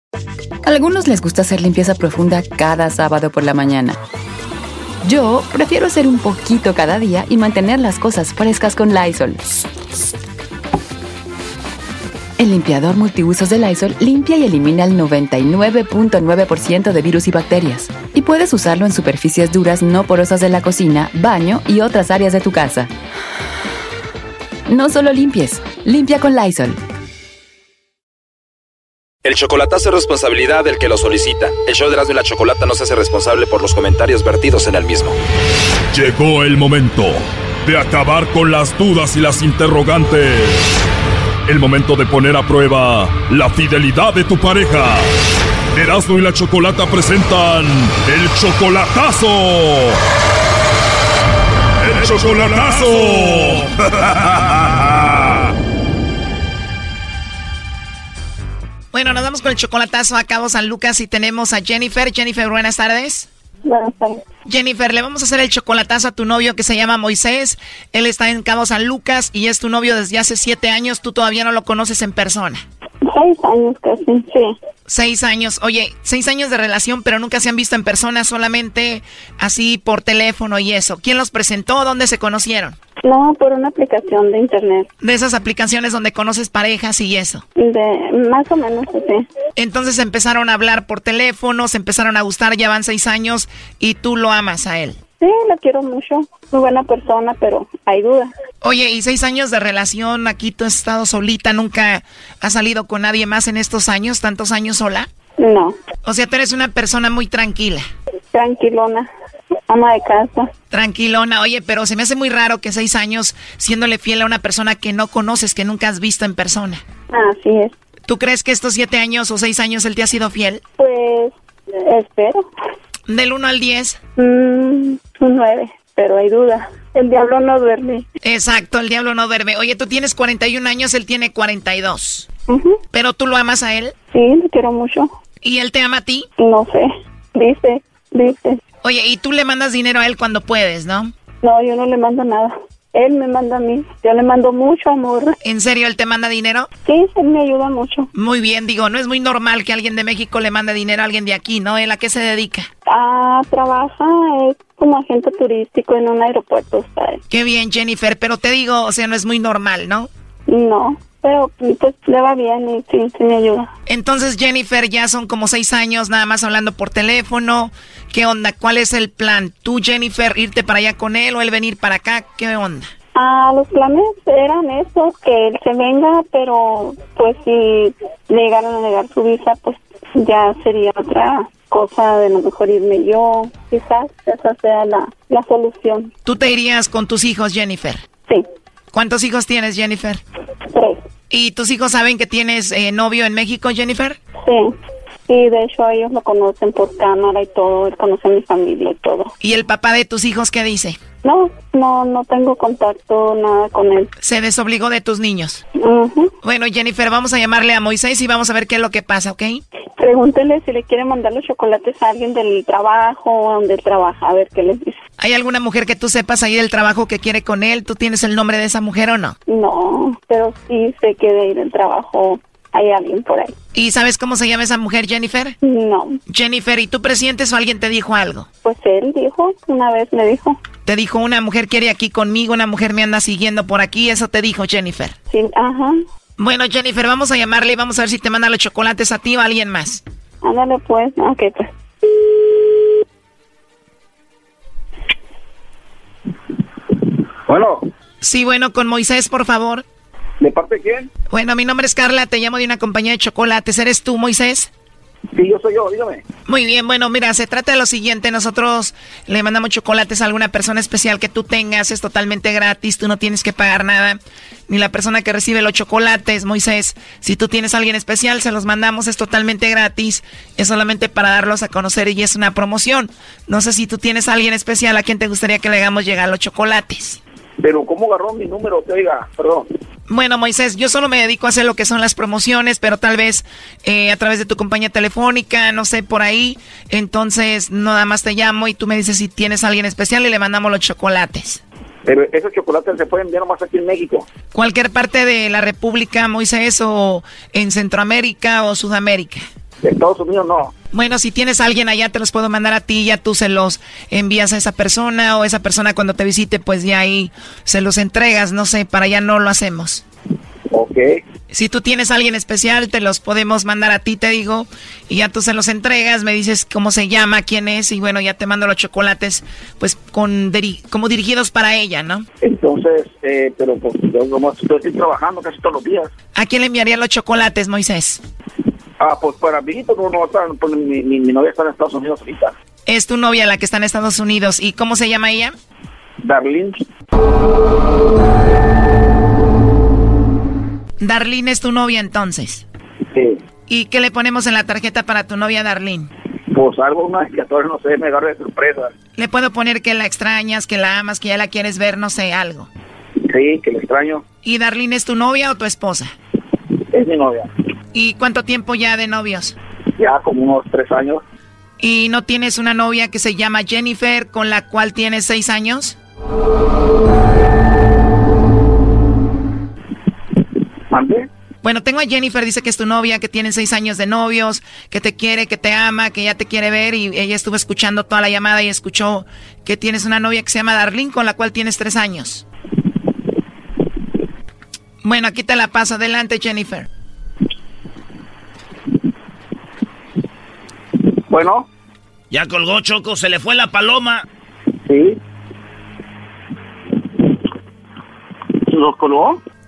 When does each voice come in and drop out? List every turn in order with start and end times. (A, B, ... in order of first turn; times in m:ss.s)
0:00.6-0:04.0 A
0:05.0-0:09.6 A
0:12.4-0:22.9 A
0:24.7-0:26.8 A
0:29.2-0:35.2 B
0:35.9-0:40.7 C
0:41.5-0:45.1 C
0:45.7-0:50.0 C
0:51.8-0:55.3 C
0:58.9-1:03.3 D
1:03.6-1:04.2 E
1:04.4-1:12.6 D
1:13.0-1:14.6 E
1:14.9-1:22.8 D
1:23.0-1:24.9 E
1:25.0-1:27.4 D
1:27.6-1:29.3 E
1:29.6-1:35.0 D
1:35.2-1:38.3 E
1:38.6-1:45.1 D
1:45.4-1:45.8 E
1:46.0-1:47.8 D
1:48.3-1:49.1 E
1:49.7-1:50.5 E
1:50.7-1:56.8 D
1:57.1-1:57.7 E
1:58.1-2:00.6 D
2:00.8-2:02.5 E
2:03.1-2:04.0 D
2:04.2-2:08.0 E
2:08.2-2:12.3 D
2:12.5-2:12.8 E
2:12.9-2:13.9 D
2:14.1-2:15.1 E
2:15.4-2:16.3 D
2:16.4-2:18.6 E
2:18.8-2:21.1 D
2:21.4-2:25.4 E
2:25.4-2:26.7 D
2:26.8-2:28.1 E
2:28.1-2:32.7 D
2:32.8-2:37.2 E
2:37.3-2:40.1 D
2:40.5-2:43.7 E
2:43.9-2:52.9 D
2:53.1-3:06.1 E
3:06.2-3:08.0 D
3:08.9-3:10.2 D
3:10.7-3:11.0 E
3:11.3-3:14.2 D
3:14.4-3:19.3 E
3:19.4-3:21.0 D
3:21.2-3:24.1 E
3:24.2-3:25.6 D
3:25.8-3:26.3 E
3:26.4-3:29.6 D
3:30.0-3:35.0 E
3:35.2-3:39.4 D
3:39.5-3:43.5 E
3:43.7-3:45.6 D
3:45.6-3:46.2 E
3:46.3-3:48.5 D
3:48.6-3:50.6 E
3:50.8-3:55.1 D
3:55.3-3:56.0 E
3:56.4-4:00.0 D
4:00.4-4:01.7 E
4:07.5-4:07.9 F
4:08.2-4:09.8 D
4:10.4-4:11.1 F
4:11.3-4:14.7 D
4:15.3-4:16.2 F
4:16.5-4:37.2 D
4:37.6-4:39.7 F
4:40.1-4:51.6 D
4:52.0-4:54.3 F
4:54.5-4:59.4 D
4:59.8-5:00.7 F
5:00.9-5:10.0 D
5:10.7-5:11.2 F
5:11.5-5:22.2 D
5:22.4-5:26.1 F
5:26.3-5:28.2 D
5:29.0-5:32.5 F
5:32.9-5:35.5 D
5:36.2-5:36.8 F
5:41.0-5:42.6 D
5:43.1-5:43.4 F
5:43.7-5:46.1 D
5:46.5-5:48.9 F
5:49.2-5:52.7 D
5:53.2-5:54.2 F
5:54.4-5:56.1 D
5:56.9-5:57.5 F
5:57.9-5:59.6 D
6:00.0-6:01.2 F
6:01.8-6:05.9 D
6:10.9-6:11.3 F
6:11.6-6:22.4 D
6:25.0-6:26.9 D
6:31.3-6:31.7 F
6:32.3-6:34.2 G
6:34.8-6:35.2 F
6:38.7-6:39.4 F